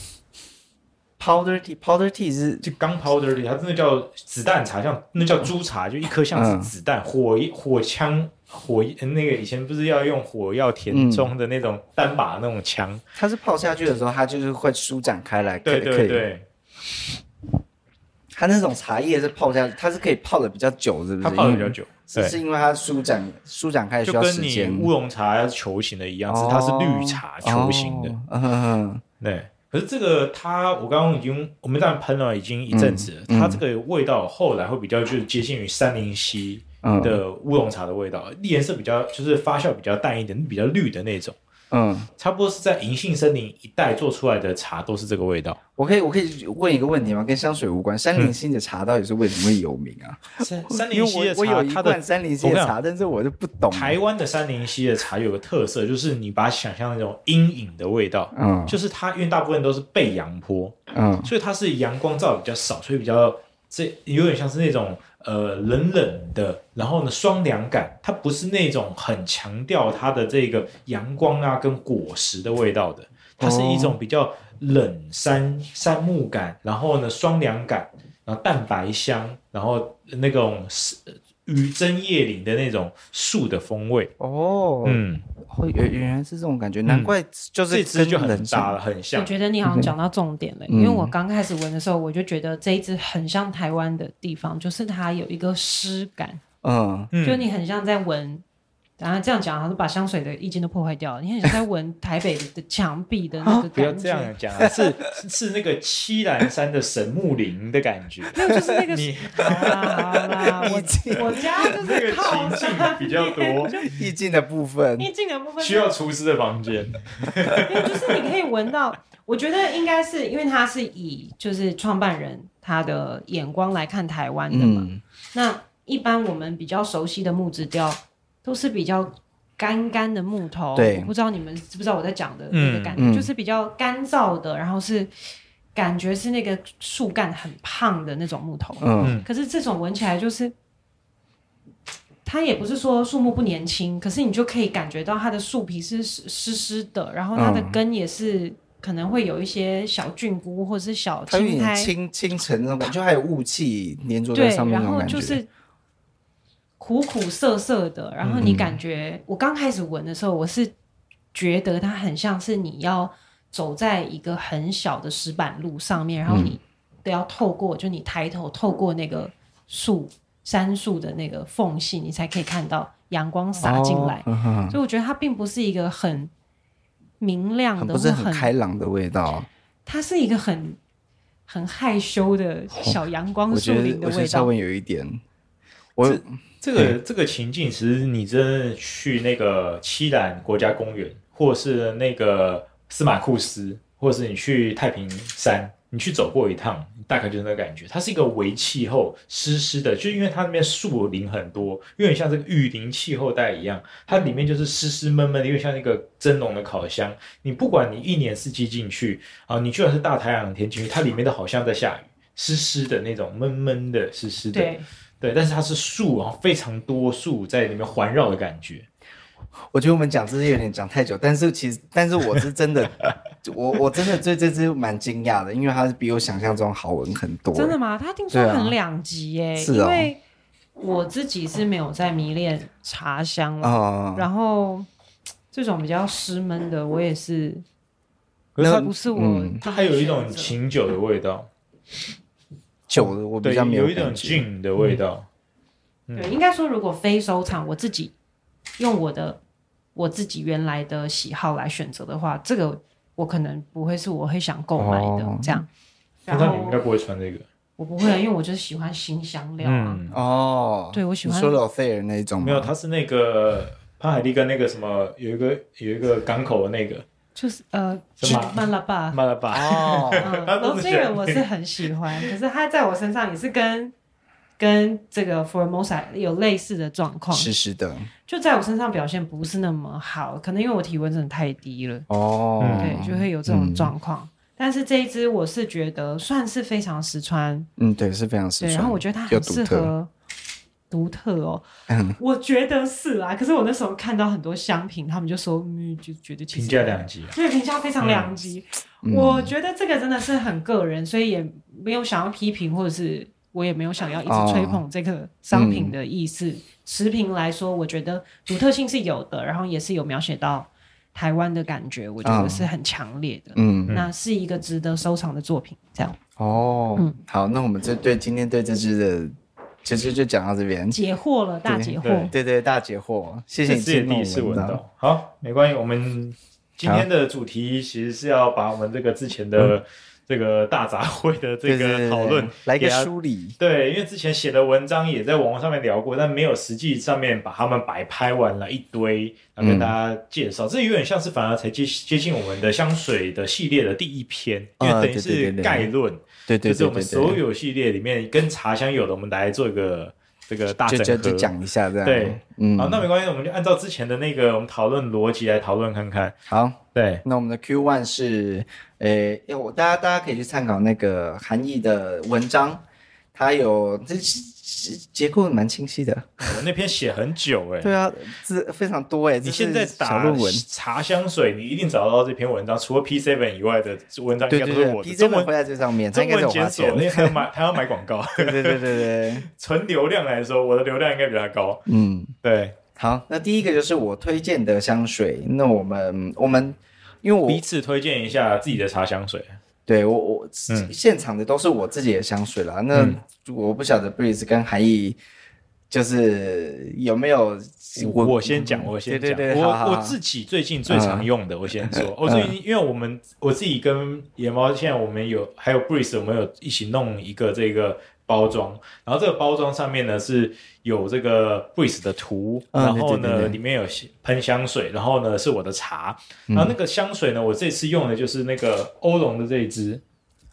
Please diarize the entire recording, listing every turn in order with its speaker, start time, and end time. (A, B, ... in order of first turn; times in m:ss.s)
0:01.2-0:02.6 A
0:02.6-0:13.0 B
0:06.3-0:06.7 A
0:10.9-0:11.3 A
0:13.2-0:16.2 A
0:15.6-0:16.4 B
0:18.3-0:24.9 A
0:21.2-0:22.4 B
0:24.0-0:28.2 B
0:26.3-0:29.0 A
0:29.2-0:41.4 B
0:32.7-0:33.6 A
0:36.8-0:37.2 A
0:41.7-0:42.1 A
0:42.2-0:45.6 B
0:45.8-0:54.0 A
0:50.4-0:52.8 B
0:53.7-1:24.1 B
0:58.3-0:58.8 A
1:00.9-1:01.3 A
1:13.4-1:14.0 A
1:24.2-1:28.8 A
1:24.8-1:25.2 B
1:26.8-1:27.1 B
1:27.7-1:29.3 B
1:29.1-1:36.4 C
1:29.6-1:29.9 A
1:30.7-1:31.1 A
1:36.6-1:37.1 A
1:37.1-1:37.4 B
1:37.2-1:38.4 C
1:39.0-1:44.3 C
1:43.7-1:50.0 B
1:44.6-1:44.9 A
1:48.3-1:53.9 C
1:50.4-1:51.7 A
1:51.4-1:53.9 B
1:53.8-1:55.1 A
1:55.0-1:56.0 C
1:55.6-1:58.1 B
1:57.6-2:15.1 C
2:04.5-2:05.0 A
2:10.7-2:11.1 A
2:12.5-2:13.0 B
2:13.0-2:13.3 A
2:15.7-2:20.5 C
2:18.8-2:19.2 A
2:19.0-2:19.2 B
2:22.2-2:31.9 C
2:27.3-2:27.8 A
2:31.3-2:35.4 A
2:34.3-2:35.5 C
2:36.8-2:40.7 C
2:38.2-2:38.5 B
2:38.4-2:38.8 A
2:41.3-2:56.3 C
2:46.3-2:46.6 A
2:53.6-2:54.8 A
2:57.2-2:58.5 C
2:57.8-2:59.5 A
2:59.8-3:00.8 C
3:01.5-3:04.5 C
3:03.5-3:05.2 A
3:06.0-3:06.2 A
3:06.0-3:38.8 B
3:34.5-3:34.8 C
3:39.7-3:47.8 A
3:47.5-3:50.2 C
3:48.3-3:48.8 A
3:49.6-3:50.1 A
3:50.8-3:54.9 C
3:53.6-3:54.3 A
3:55.5-3:57.6 C
3:58.6-3:58.9 B
3:58.6-3:59.6 A
3:58.6-4:00.6 C
3:59.6-4:01.5 B
4:02.9-4:05.0 A
4:02.9-4:05.2 B
4:06.1-4:06.3 B
4:06.1-4:08.1 C
4:08.8-4:09.4 C
4:09.9-4:15.7 C
4:14.8-4:15.6 A
4:16.3-4:16.8 C
4:16.3-4:17.4 B
4:17.8-4:20.0 C
4:19.6-4:20.2 B
4:20.1-4:22.7 A
4:20.9-4:21.6 C
4:22.4-4:27.0 B
4:27.3-4:29.2 C
4:28.2-4:31.4 B
4:29.5-4:30.3 A
4:30.2-4:33.9 C
4:34.6-4:37.5 C
4:37.3-4:38.1 A
4:38.3-4:42.1 C
4:42.1-4:43.9 A
4:42.6-4:42.9 B
4:42.7-4:47.7 C
4:47.8-4:49.9 A
4:48.6-4:50.1 C
4:50.9-4:51.6 C
4:51.9-4:52.2 A
4:52.2-5:16.2 C
4:56.5-4:57.3 B
4:58.0-4:58.3 B
4:59.0-4:59.5 A
5:04.3-5:04.8 A
5:05.5-5:05.9 A
5:12.2-5:12.7 A
5:13.6-5:14.0 A
5:16.4-5:21.0 A
5:20.9-5:22.3 C
5:21.6-5:24.8 A
5:22.0-5:22.3 B
5:23.6-5:51.5 B
5:26.8-5:27.1 A
5:31.6-5:33.6 A
5:39.6-5:39.9 A
5:44.8-5:45.9 A
5:46.5-5:47.4 A
5:50.8-5:53.1 A
5:52.0-5:56.4 B
5:56.5-6:02.8 A
5:56.9-5:57.2 B
6:03.3-6:06.6 A
6:06.4-6:07.9 B
6:07.8-6:10.6 A
6:09.4-6:15.5 B
6:14.5-6:17.4 A
6:16.1-6:21.8 B
6:18.4-6:19.4 A
6:21.9-6:22.3 A
6:22.4-6:22.8 B
6:23.0-6:27.6 A
6:27.5-6:29.6 B
6:29.9-6:35.2 A
6:32.9-6:33.2 B
6:35.9-6:40.2 A
6:38.0-7:00.0 B
6:40.9-6:41.3 A
6:41.8-6:42.5 A
6:52.7-6:53.6 A
6:56.5-6:56.8 A